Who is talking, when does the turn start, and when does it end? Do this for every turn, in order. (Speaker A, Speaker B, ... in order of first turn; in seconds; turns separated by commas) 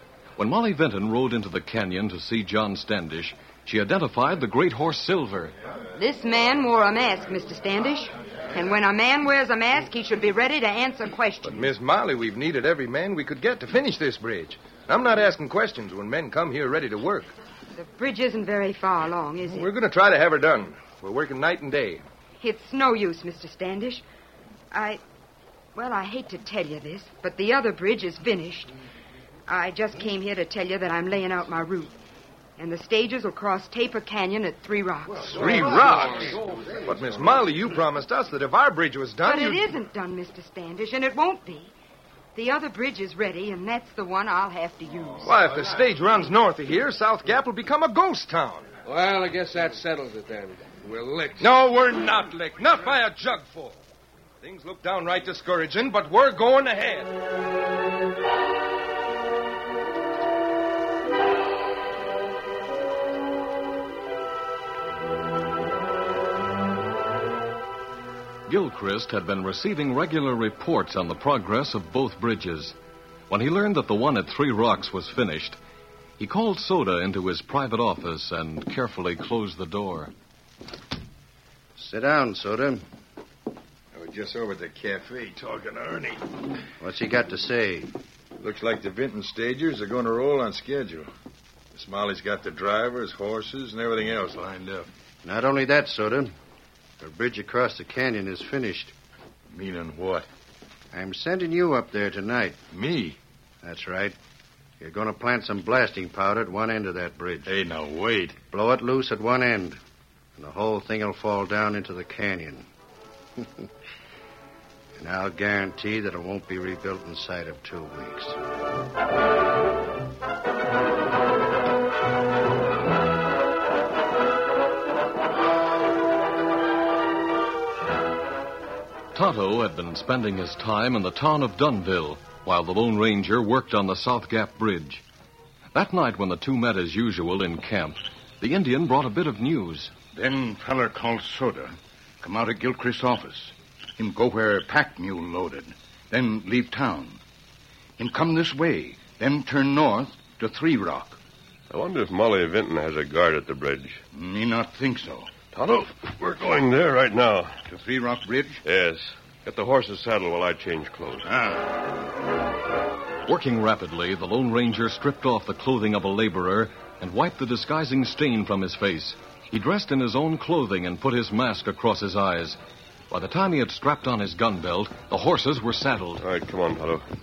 Speaker A: 0.4-5.5, Speaker B: 6.0-11.7, Speaker C: 11.4-17.3, Speaker B: 17.7-19.7, Speaker C: 19.5-22.0, Speaker B: 22.4-24.0, Speaker B: 24.7-25.0, Speaker B: 25.7-28.7, Speaker B: 29.5-31.9, Speaker B: 32.6-35.3, Speaker C: 35.2-36.3, Speaker D: 35.4-36.4, Speaker C: 36.8-39.7, Speaker B: 39.2-41.7, Speaker B: 42.3-45.3, Speaker C: 45.2-48.7, Speaker D: 48.8-51.5, Speaker C: 51.4-53.8, Speaker C: 54.4-57.1, Speaker A: 68.5-72.8, Speaker A: 73.3-75.6, Speaker A: 76.2-80.1, Speaker E: 81.8-82.8, Speaker F: 83.9-86.2, Speaker E: 86.8-87.9, Speaker F: 88.4-91.1, Speaker F: 91.7-94.9, Speaker E: 95.2-96.3, Speaker E: 97.0-98.9, Speaker F: 99.5-100.3, Speaker E: 100.9-102.6, Speaker F: 102.7-103.2, Speaker E: 103.6-104.1, Speaker E: 104.8-107.5, Speaker F: 107.5-108.4, Speaker E: 108.5-109.8, Speaker E: 110.3-112.7, Speaker E: 113.4-113.7, Speaker E: 115.0-118.4, Speaker A: 129.1-135.0, Speaker A: 135.7-139.9, Speaker G: 140.1-147.2, Speaker G: 148.0-151.2, Speaker H: 151.7-154.0, Speaker G: 154.1-155.3, Speaker H: 155.5-157.6, Speaker G: 157.7-158.6, Speaker H: 158.6-161.3, Speaker G: 161.2-161.7, Speaker A: 163.2-172.6, Speaker A: 173.1-176.2, Speaker H: 176.2-177.0